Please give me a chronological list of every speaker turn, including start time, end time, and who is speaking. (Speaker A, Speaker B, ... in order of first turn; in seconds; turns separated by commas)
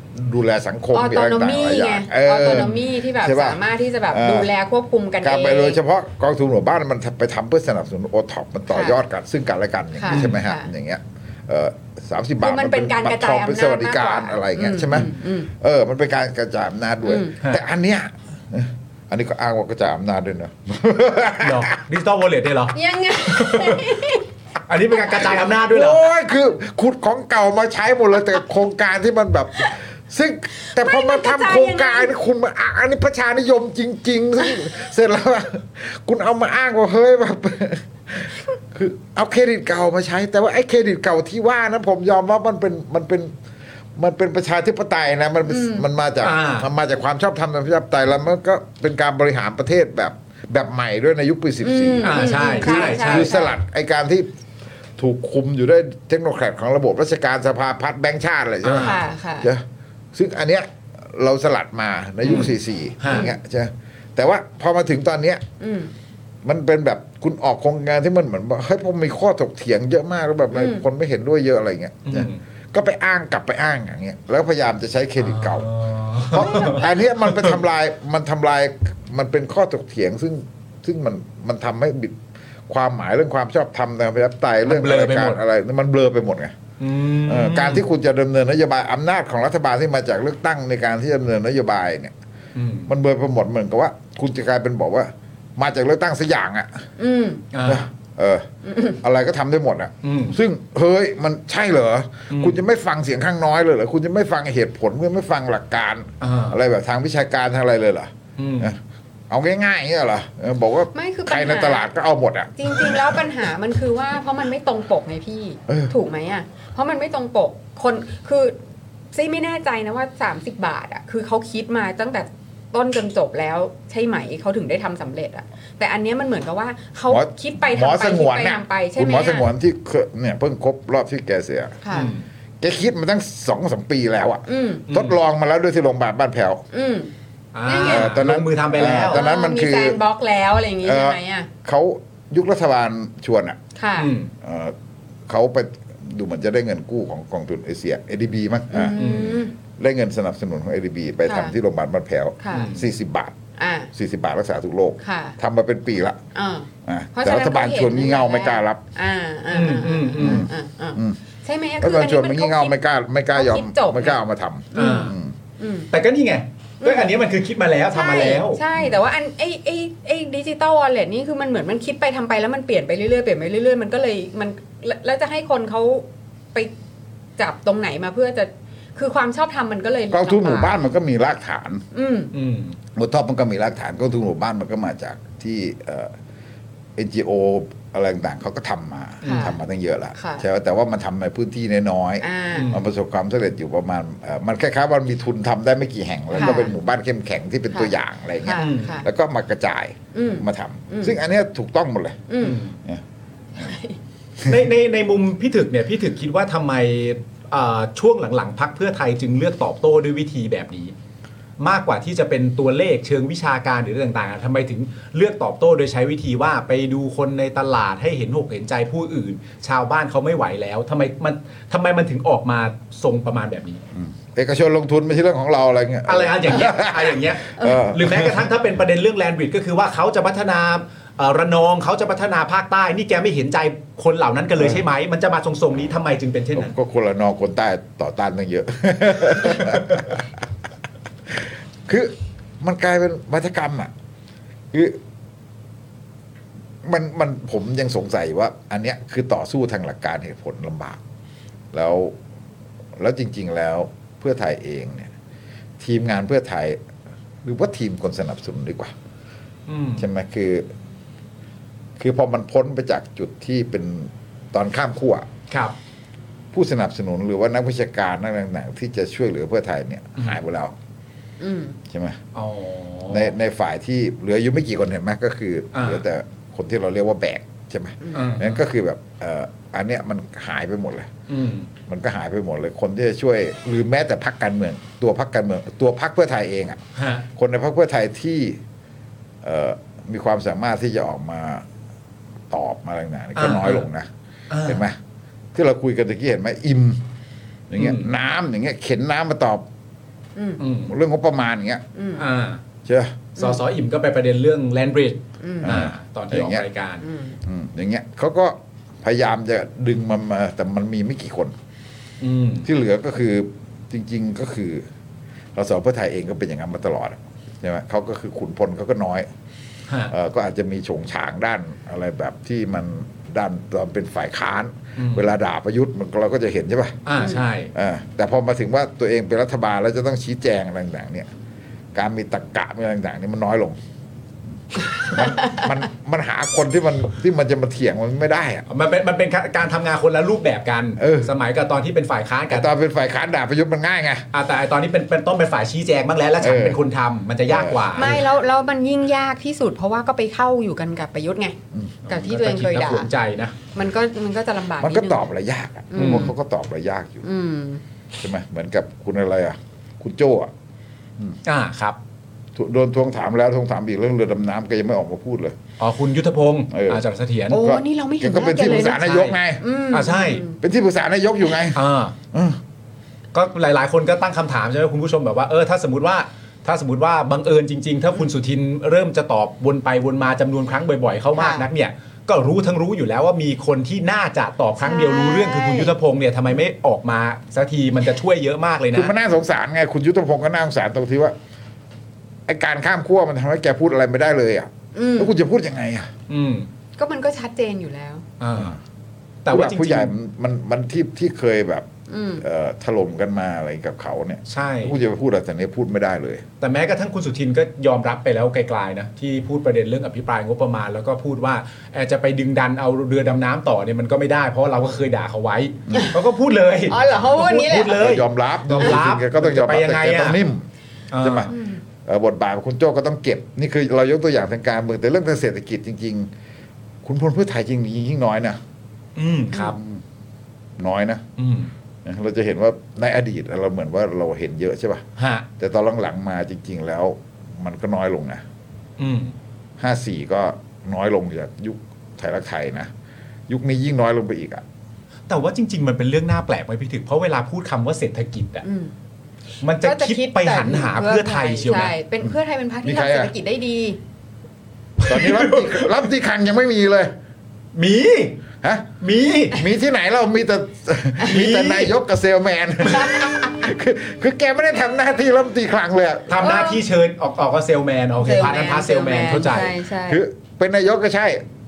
Speaker A: 0.1-4.5, Speaker B: 0.9-5.8, Speaker C: 2.5-2.8, Speaker A: 5.2-21.8, Speaker B: 8.7-9.0, Speaker B: 9.9-10.7, Speaker C: 10.1-10.4, Speaker B: 12.4-15.5, Speaker B: 17.0-17.3, Speaker C: 21.4-23.9, Speaker B: 22.7-24.2, Speaker C: 24.7-26.0, Speaker A: 25.7-43.3, Speaker B: 30.6-32.1, Speaker A: 44.0-54.3, Speaker B: 45.5-45.9, Speaker C: 46.2-46.7, Speaker B: 51.6-53.5, Speaker C: 52.0-53.3, Speaker A: 55.0-59.6, Speaker C: 58.6-59.0, Speaker B: 58.8-59.5, Speaker A: 60.1-65.4, Speaker C: 62.2-63.3, Speaker B: 65.6-65.9, Speaker A: 66.4-75.7, Speaker B: 70.5-70.8, Speaker C: 72.1-72.4, Speaker C: 75.2-77.6, Speaker A: 76.2-86.5, Speaker B: 76.3-76.9, Speaker C: 84.7-85.4, Speaker C: 86.8-87.8, Speaker A: 87.2-92.1, Speaker C: 92.5-92.9, Speaker A: 92.9-96.9, Speaker B: 97.0-97.4, Speaker C: 97.5-97.9, Speaker A: 97.6-98.5, Speaker B: 98.7-99.0, Speaker A: 99.0-108.8, Speaker C: 100.0-100.4, Speaker C: 102.3-102.6, Speaker C: 106.2-106.6, Speaker C: 108.4-108.7, Speaker A: 109.3-113.2, Speaker B: 110.9-111.9, Speaker B: 112.6-118.6, Speaker B: 119.1-129.5, Speaker A: 127.1-131.8, Speaker B: 131.8-132.1, Speaker C: 131.9-132.2, Speaker A: 132.6-136.7, Speaker B: 134.5-134.8, Speaker C: 134.9-135.2, Speaker B: 136.7-137.1, Speaker C: 137.5-139.2, Speaker B: 137.6-138.2, Speaker A: 137.8-140.0, Speaker B: 138.9-141.5, Speaker A: 140.8-143.6, Speaker B: 143.8-144.1, Speaker C: 144.0-144.3, Speaker A: 144.4-144.8, Speaker A: 145.3-149.2, Speaker B: 148.7-149.5, Speaker C: 149.0-149.4, Speaker A: 149.8-153.4, Speaker B: 151.2-151.5, Speaker B: 152.4-152.7, Speaker C: 152.5-152.8, Speaker B: 153.6-153.9, Speaker A: 153.9-156.2, Speaker B: 155.0-155.4, Speaker B: 156.3-162.8, Speaker A: 156.8-158.8, Speaker C: 159.5-160.5, Speaker A: 160.2-161.2, Speaker A: 161.8-165.3, Speaker B: 163.3-164.2, Speaker B: 164.7-165.9, Speaker C: 164.8-165.1, Speaker C: 165.9-168.6, Speaker B: 166.8-167.1, Speaker B: 167.9-176.7, Speaker B: 177.4-180.8, Speaker A: 180.1-181.8, Speaker B: 181.9-182.3, Speaker C: 182.3-182.8, Speaker A: 182.9-186.1, Speaker A: 187.0-202.3, Speaker C: 189.2-189.6, Speaker B: 189.2-189.6, Speaker B: 190.2-190.4, Speaker B: 192.2-192.7, Speaker C: 192.5-192.8, Speaker B: 196.3-196.8, Speaker B: 197.7-199.1, Speaker C: 198.5-199.0, Speaker B: 200.1-201.2, Speaker B: 202.3-202.6, Speaker C: 202.4-202.8, Speaker B: 203.6-204.0, Speaker C: 204.4-210.9, Speaker C: 211.6-223.8, Speaker A: 223.9-228.5, Speaker C: 226.1-236.7, Speaker B: 227.6-227.8, Speaker A: 234.6-234.8, Speaker A: 236.6-240.3, Speaker A: 241.3-243.9, Speaker A: 244.7-245.0, Speaker A: 246.8-251.0, Speaker A: 251.7-252.2, Speaker A: 253.0-255.1, Speaker A: 255.8-256.8, Speaker A: 257.4-258.9, Speaker C: 259.7-260.1, Speaker A: 260.0-260.7, Speaker A: 262.0-265.3, Speaker C: 265.5-265.8, Speaker A: 266.5-270.8, Speaker B: 271.4-271.8, Speaker A: 271.9-272.2, Speaker C: 272.4-273.3, Speaker A: 273.1-281.1, Speaker C: 275.7-276.0, Speaker C: 278.1-278.6, Speaker C: 281.3-281.7, Speaker A: 281.9-286.8, Speaker C: 287.0-287.2, Speaker A: 287.4-288.6, Speaker A: 289.4-291.7, Speaker A: 292.5-294.1, Speaker C: 293.4-293.9, Speaker C: 294.5-294.8, Speaker A: 294.6-295.0, Speaker A: 295.5-297.0, Speaker A: 297.7-299.7, Speaker C: 297.8-298.1, Speaker B: 300.4-300.6, Speaker C: 300.6-300.9, Speaker A: 300.9-301.8, Speaker B: 301.9-302.2, Speaker C: 302.2-302.6, Speaker A: 302.9-303.3, Speaker C: 303.4-307.0, Speaker B: 305.4-305.8, Speaker A: 305.6-306.7, Speaker B: 307.0-307.4, Speaker A: 307.4-311.6, Speaker C: 312.2-312.7, Speaker A: 312.6-314.9, Speaker A: 315.6-319.3, Speaker A: 320.1-327.0, Speaker C: 325.0-325.2, Speaker C: 327.1-327.7, Speaker A: 327.7-331.3, Speaker A: 331.9-333.8, Speaker A: 335.1-338.7, Speaker C: 338.7-342.7, Speaker A: 341.0-341.3, Speaker A: 342.5-344.3, Speaker C: 344.3-348.2, Speaker A: 346.4-346.8, Speaker A: 347.5-348.2, Speaker B: 348.0-351.6, Speaker C: 352.1-353.6, Speaker B: 352.1-353.1, Speaker B: 353.7-355.2, Speaker A: 354.8-357.2, Speaker B: 355.9-356.3, Speaker C: 356.0-356.3, Speaker B: 357.2-357.8, Speaker A: 358.2-360.5, Speaker C: 361.4-362.0, Speaker A: 362.6-365.6, Speaker C: 365.8-367.6, Speaker A: 366.7-369.6, Speaker B: 367.5-370.6, Speaker C: 368.9-369.4, Speaker C: 369.9-370.4, Speaker A: 370.6-371.8, Speaker C: 371.7-372.1, Speaker A: 372.3-372.6, Speaker C: 373.3-389.1, Speaker B: 381.4-381.7, Speaker B: 384.8-385.9, Speaker A: 388.9-391.4, Speaker A: 392.5-396.1, Speaker B: 394.9-395.3, Speaker C: 396.3-396.7, Speaker B: 397.0-398.2, Speaker C: 398.4-398.8, Speaker C: 399.4-400.1, Speaker A: 399.5-401.9, Speaker B: 402.1-402.4, Speaker A: 402.4-406.5, Speaker C: 404.5-405.0, Speaker C: 406.6-420.4, Speaker B: 416.9-418.0, Speaker A: 417.9-420.7, Speaker C: 421.1-421.5, Speaker A: 421.2-421.5, Speaker B: 421.5-421.8, Speaker A: 422.1-426.3, Speaker A: 427.0-428.6, Speaker C: 429.2-429.8, Speaker A: 429.7-430.0, Speaker A: 430.8-431.2, Speaker C: 431.4-431.7, Speaker A: 432.1-435.1, Speaker C: 435.2-435.5, Speaker A: 435.6-438.4, Speaker C: 439.0-439.3, Speaker A: 439.8-442.9, Speaker A: 443.5-444.6, Speaker C: 445.3-448.6, Speaker B: 448.6-448.9, Speaker C: 449.6-451.9, Speaker B: 449.8-454.0, Speaker A: 452.8-453.3, Speaker C: 455.0-455.9, Speaker A: 455.0-457.1, Speaker C: 457.8-458.4, Speaker A: 458.6-458.9, Speaker C: 459.0-459.6, Speaker A: 459.5-466.4, Speaker C: 461.2-461.9, Speaker C: 466.3-469.8, Speaker B: 466.4-466.8, Speaker B: 468.2-470.2, Speaker A: 470.1-471.5